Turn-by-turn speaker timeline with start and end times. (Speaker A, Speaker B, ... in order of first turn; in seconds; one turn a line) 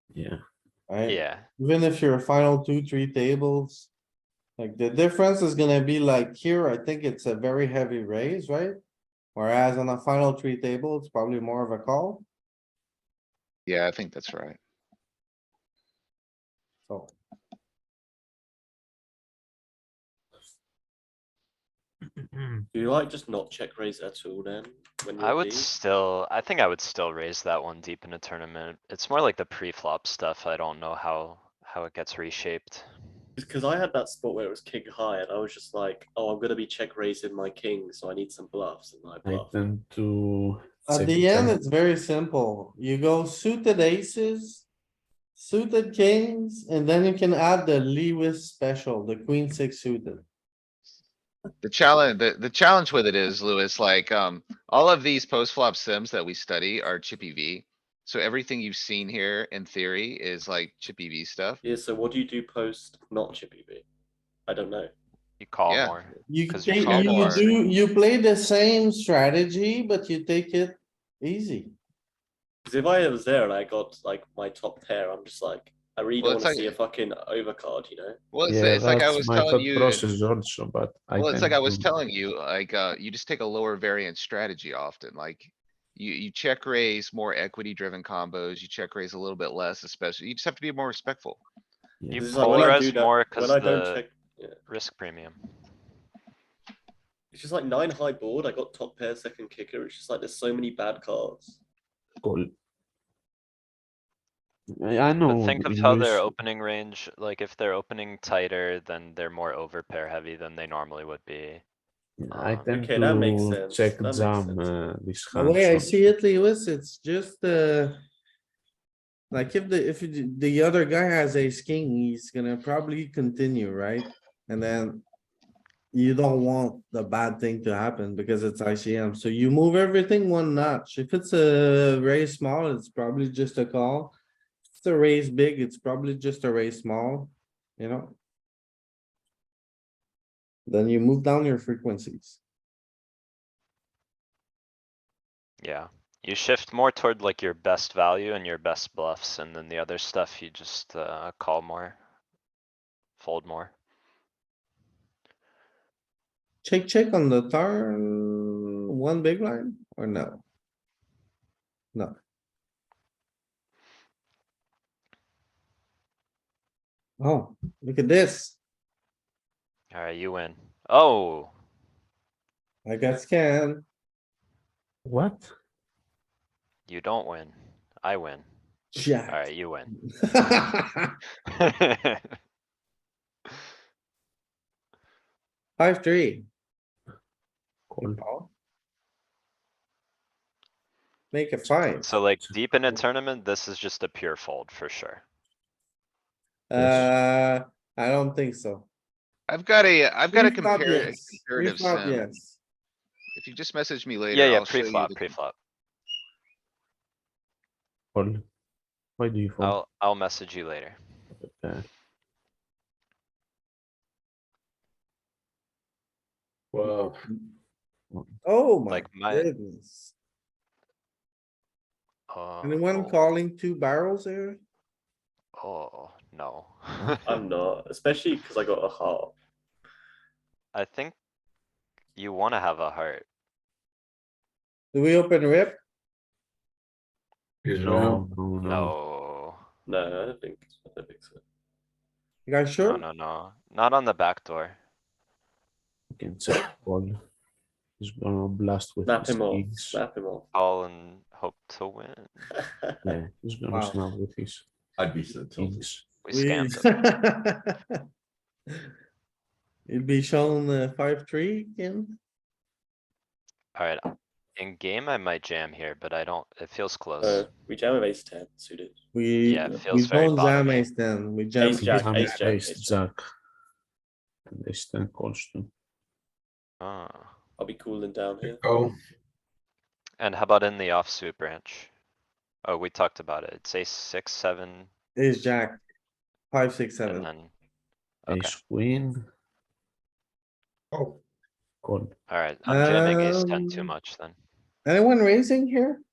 Speaker A: 0.1-0.4
Speaker B: 0.9-3.9
Speaker C: 1.1-1.5
Speaker B: 4.6-8.8
Speaker B: 9.3-12.2
Speaker D: 13.7-14.6
Speaker B: 16.9-17.1
Speaker E: 22.7-25.7
Speaker C: 25.2-32.9
Speaker E: 33.4-39.6
Speaker A: 39.2-41.6
Speaker B: 40.9-44.7
Speaker B: 45.4-50.2
Speaker D: 51.6-61.6
Speaker E: 61.6-63.9
Speaker E: 64.5-64.9
Speaker C: 65.4-67.5
Speaker D: 65.7-66.0
Speaker B: 66.3-71.7
Speaker D: 66.8-67.5
Speaker E: 72.7-78.2
Speaker D: 76.2-76.8
Speaker D: 78.3-80.0
Speaker A: 78.5-81.9
Speaker D: 81.2-91.4
Speaker A: 92.0-92.7
Speaker C: 92.1-94.0
Speaker E: 92.2-94.6
Speaker C: 94.7-95.4
Speaker E: 97.3-101.6
Speaker A: 102.2-102.5
Speaker A: 104.8-106.3
Speaker C: 105.2-111.6
Speaker A: 112.2-116.0
Speaker C: 112.3-112.7
Speaker E: 112.6-114.9
Speaker B: 115.3-118.0
Speaker B: 119.3-125.0
Speaker B: 125.9-134.2
Speaker B: 134.7-138.2
Speaker B: 140.7-142.4
Speaker C: 145.6-152.0
Speaker C: 153.2-153.7
Speaker B: 156.6-160.4
Speaker B: 167.2-168.6
Speaker C: 169.9-171.5
Speaker B: 172.8-173.8
Speaker A: 175.1-175.5
Speaker C: 176.9-178.5
Speaker B: 178.9-179.5
Speaker C: 179.3-179.9
Speaker B: 180.1-181.1
Speaker C: 181.6-182.2
Speaker B: 185.8-186.5
Speaker A: 187.9-188.2
Speaker B: 188.0-188.5
Speaker B: 191.3-192.1
Speaker C: 192.0-195.2
Speaker B: 196.7-198.9
Speaker A: 196.8-197.1
Speaker D: 199.5-202.3
Speaker B: 200.3-202.6
Speaker D: 203.3-205.3
Speaker C: 204.3-205.5
Speaker A: 208.1-208.4
Speaker A: 209.2-209.8
Speaker C: 209.6-211.0
Speaker A: 211.3-211.9
Speaker A: 216.7-217.2
Speaker B: 218.4-220.1
Speaker C: 218.9-219.5
Speaker C: 222.3-223.2
Speaker B: 222.6-224.6
Speaker C: 225.6-227.2
Speaker E: 227.2-229.3
Speaker C: 230.7-231.2
Speaker C: 232.2-233.3
Speaker B: 234.9-235.8
Speaker F: 237.7-238.2
Speaker A: 237.7-239.0
Speaker C: 238.6-239.6
Speaker E: 239.9-241.4
Speaker B: 242.5-243.1
Speaker C: 242.8-244.8
Speaker A: 246.1-247.2
Speaker A: 248.0-250.0
Speaker E: 249.1-250.5
Speaker C: 250.5-252.5
Speaker E: 252.6-252.9
Speaker A: 253.1-254.7
Speaker B: 253.7-254.0
Speaker F: 255.0-255.8
Speaker A: 255.6-256.1
Speaker C: 256.2-257.0
Speaker B: 256.3-257.8
Speaker B: 259.9-262.2
Speaker C: 263.8-267.5
Speaker E: 267.2-269.0
Speaker B: 269.1-272.3
Speaker C: 269.4-270.9
Speaker E: 271.6-272.9
Speaker A: 271.8-273.2
Speaker A: 274.5-275.7
Speaker C: 276.8-277.3
Speaker E: 277.6-278.6
Speaker F: 278.4-278.9
Speaker C: 280.2-281.9
Speaker C: 282.6-284.9
Speaker B: 285.2-285.8
Speaker B: 286.5-287.3
Speaker C: 287.1-287.5
Speaker C: 288.3-288.5
Speaker A: 288.3-289.2
Speaker A: 291.8-292.1
Speaker C: 292.3-294.4
Speaker B: 292.7-293.9
Speaker B: 294.9-296.0